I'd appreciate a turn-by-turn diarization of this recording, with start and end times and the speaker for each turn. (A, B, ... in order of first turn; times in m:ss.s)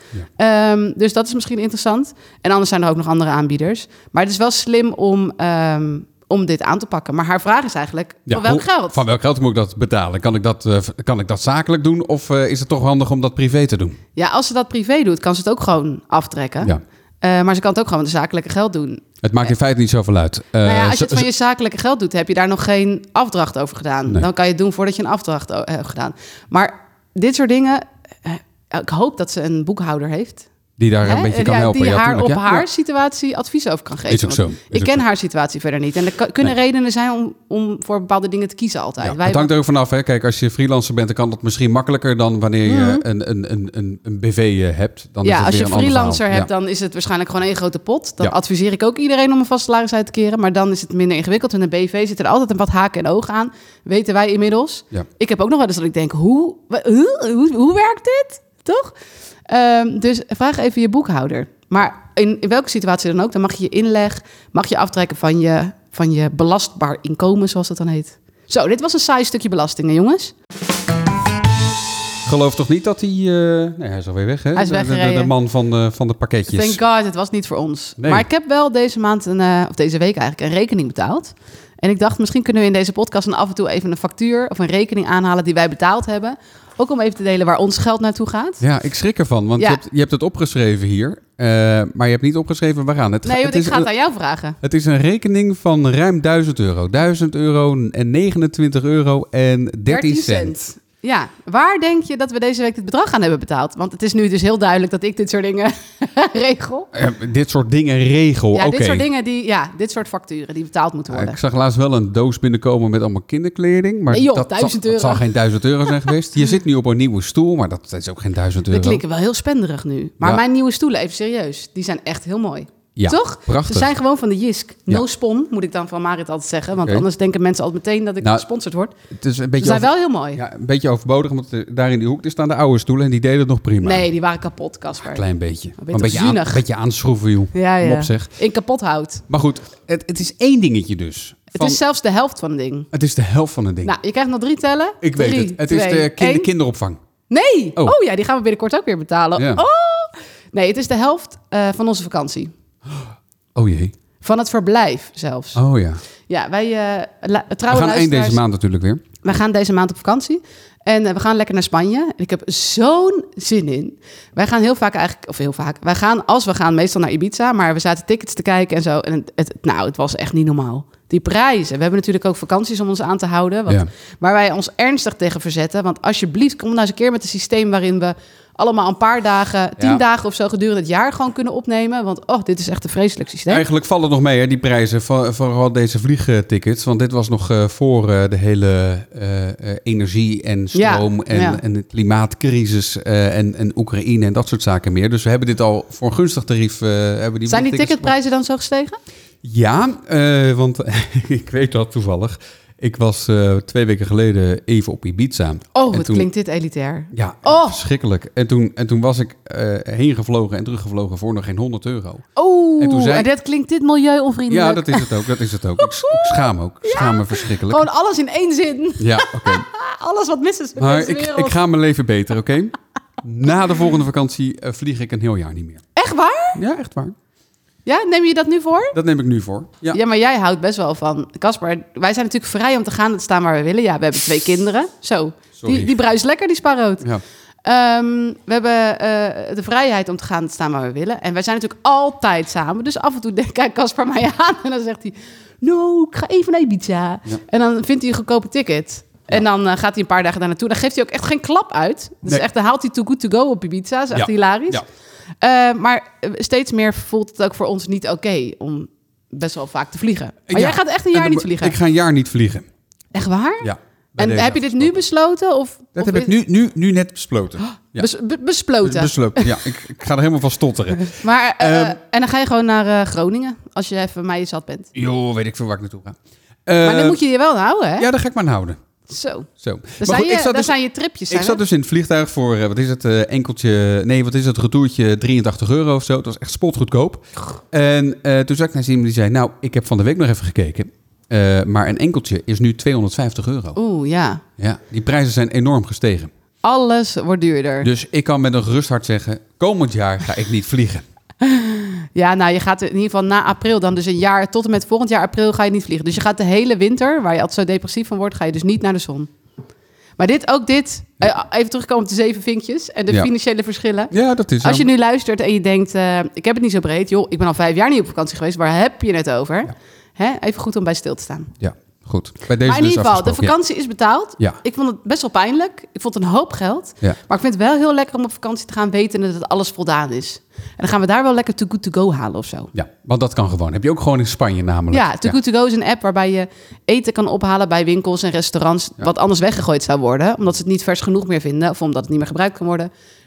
0:00.4-0:09.0 A
0:08.3-0:14.0 B
0:14.2-0:19.0 A
0:19.2-0:21.3 B
0:20.6-0:30.5 A
0:30.8-0:32.7 B
0:31.0-0:39.5 A
0:34.1-0:35.0 B
0:39.0-0:46.5 B
0:42.7-0:43.0 A
0:45.2-0:59.0 A
0:59.5-1:10.3 A
1:12.2-1:16.8 B
1:14.6-1:15.3 A
1:16.5-1:28.6 A
1:18.0-1:18.3 B
1:28.6-1:33.9 B
1:33.2-1:34.6 A
1:34.6-1:40.6 B
1:39.9-1:46.9 A
1:46.9-1:49.1 B
1:48.5-1:51.4 A
1:51.1-1:59.0 B
1:54.1-1:55.2 A
1:58.7-2:08.9 A
2:03.0-2:04.0 B
2:09.1-2:14.1 B
2:09.6-2:10.4 A
2:13.8-2:15.2 A
2:15.0-2:18.3 B
2:15.8-2:16.6 A
2:17.5-2:19.2 A
2:19.3-2:21.8 B
2:21.5-2:22.9 A
2:22.9-2:24.0 B
2:23.8-2:26.5 A
2:25.0-2:27.0 B
2:27.3-2:32.5 A
2:29.4-2:29.6 B
2:32.9-2:33.9 B
2:34.2-2:35.6 A
2:35.6-2:36.0 B
2:36.3-2:38.4 A
2:37.7-2:39.1 B
2:39.2-3:03.6 A
3:03.5-3:18.1 B
3:10.7-3:11.6 A
3:17.5-3:19.0 A
3:19.4-3:26.3 B
3:25.8-3:27.8 A
3:27.1-3:32.3 B
3:32.4-3:41.6 A
3:32.8-3:33.3 B
3:34.5-3:37.9 B
3:39.0-3:39.7 B
3:40.8-3:45.8 B
3:46.0-3:46.6 A
3:46.6-3:47.2 B
3:47.9-3:49.0 A
3:48.9-3:50.0 B
3:49.9-3:57.0 A
3:55.6-3:55.9 B
3:57.6-4:14.8 A
4:14.1-4:14.8 B
4:15.4-4:21.8 A
4:20.5-4:22.7 B
4:23.1-4:26.3 A
4:23.6-4:25.0 B
4:26.0-4:28.1 B
4:27.7-4:29.6 A
4:28.8-4:32.0 B
4:31.0-4:34.9 A
4:35.0-4:37.2 B
4:36.8-4:38.1 A
4:38.0-4:38.8 B
4:39.1-4:41.6 A
4:39.6-4:40.7 B
4:41.3-4:53.8 B
4:53.8-4:54.4 A
4:54.6-4:56.3 B
4:56.6-4:57.9 A
4:57.8-5:01.0 B
5:01.4-5:09.3 A
5:10.2-5:21.5 A
5:14.1-5:14.9 B
5:21.6-5:23.6 B
5:22.6-5:32.7 A
5:32.7-5:35.4 B
5:34.9-5:42.9 A